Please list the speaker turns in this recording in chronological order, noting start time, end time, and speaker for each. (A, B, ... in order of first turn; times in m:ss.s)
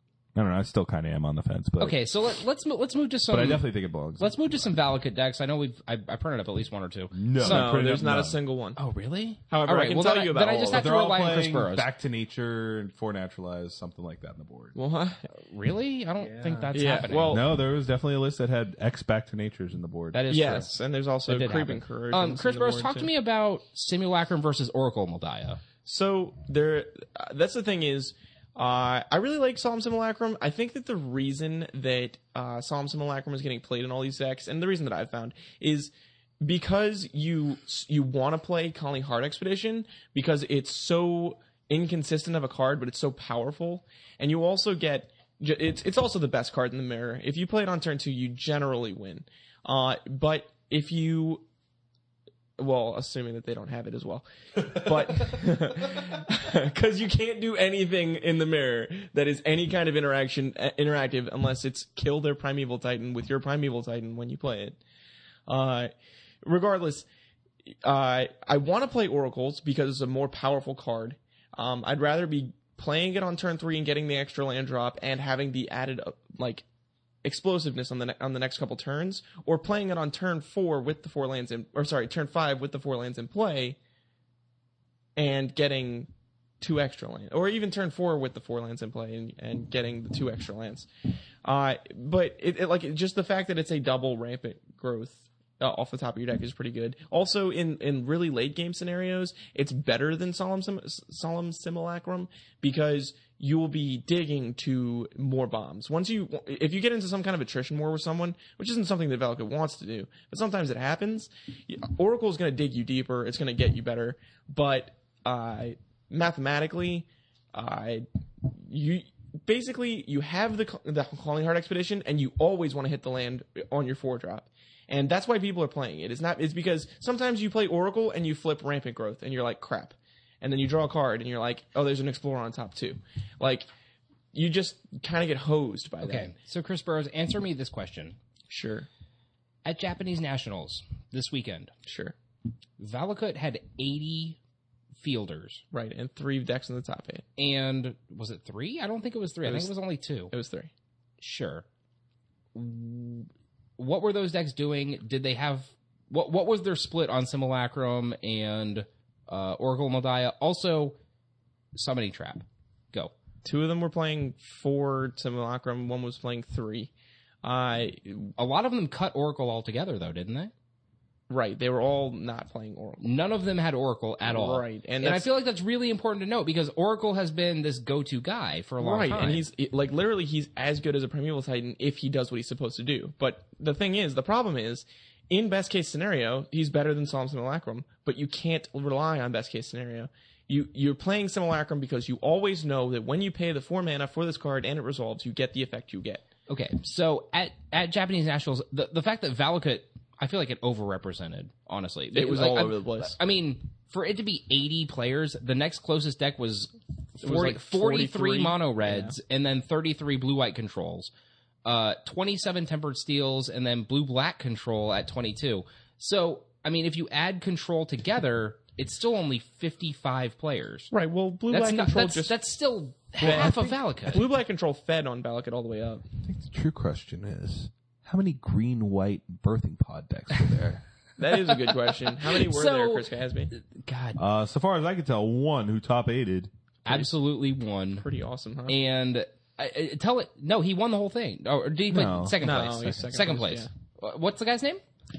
0:00.3-0:02.0 A
0:01.8-0:07.8 B
0:03.3-0:04.8 A
0:07.1-0:08.4 A
0:07.4-0:08.8 C
0:08.8-0:11.9 B
0:09.5-0:10.9 C
0:10.7-0:14.7 A
0:14.7-0:15.3 C
0:15.4-0:17.4 B
0:16.2-0:16.7 A
0:16.7-0:17.5 C
0:17.3-0:20.2 A
0:20.1-0:20.8 B
0:20.3-0:23.1 C
0:21.3-0:25.6 B
0:25.8-0:51.4 C
0:52.6-1:04.8 C
1:05.5-1:05.9 C
1:06.4-1:07.1 C
1:07.8-1:16.6 C
1:17.2-1:23.8 C
1:25.2-1:26.1 C
1:26.6-1:30.9 C
1:31.4-2:13.7 C
2:14.3-2:16.3 C
2:16.0-2:18.2 B
2:18.5-2:18.9 C
2:19.6-2:21.7 B
2:21.8-2:22.1 C
2:22.8-2:24.4 B
2:25.0-2:25.6 B
2:25.7-2:27.2 C
2:27.4-2:30.3 B
2:29.4-2:29.7 C
2:30.3-2:30.7 C
2:31.2-2:31.6 B
2:32.5-2:41.0 B
2:41.7-2:43.1 B
2:43.4-2:46.9 C
2:47.4-2:48.3 C
2:48.4-2:50.5 B
2:51.3-2:53.0 C
2:53.0-2:59.4 B
2:54.2-2:55.3 C
2:58.8-3:16.2 C
3:16.5-3:31.1 B
3:22.1-3:23.2 C
3:27.2-3:29.2 C
3:31.6-3:40.9 B
3:40.9-3:42.4 C
3:41.5-3:44.2 B
3:43.2-3:43.8 A
3:43.2-3:46.0 C
3:46.2-3:50.8 A
3:51.2-3:53.5 C
3:51.7-3:54.2 B
3:54.2-3:56.5 A
3:56.8-3:58.0 B
3:58.0-3:58.8 C
3:58.7-4:04.8 B
4:01.9-4:02.4 A
4:02.4-4:03.7 C